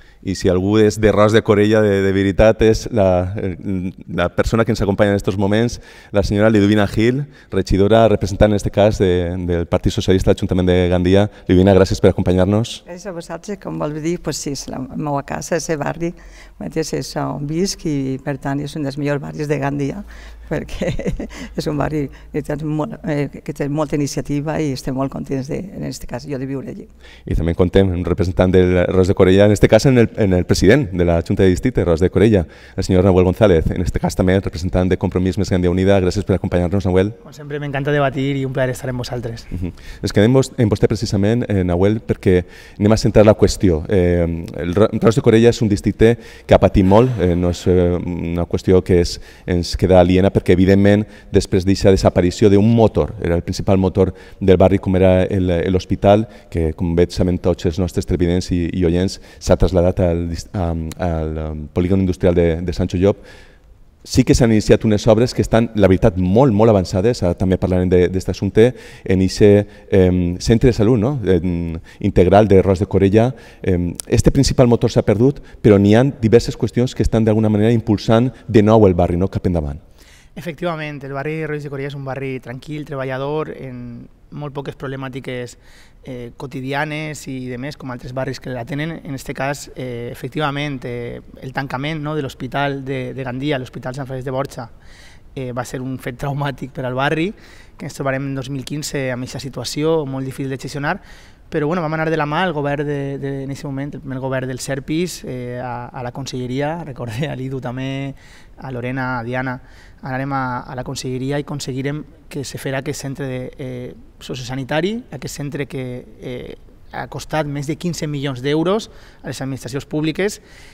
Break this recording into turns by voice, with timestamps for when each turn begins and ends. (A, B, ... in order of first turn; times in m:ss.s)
0:00.2-0:12.8 A
0:12.9-0:26.9 B
0:27.3-0:37.2 A
0:37.2-0:39.5 C
0:39.5-1:03.2 A
1:04.0-1:19.8 A
1:20.4-1:34.7 C
1:35.4-2:00.4 C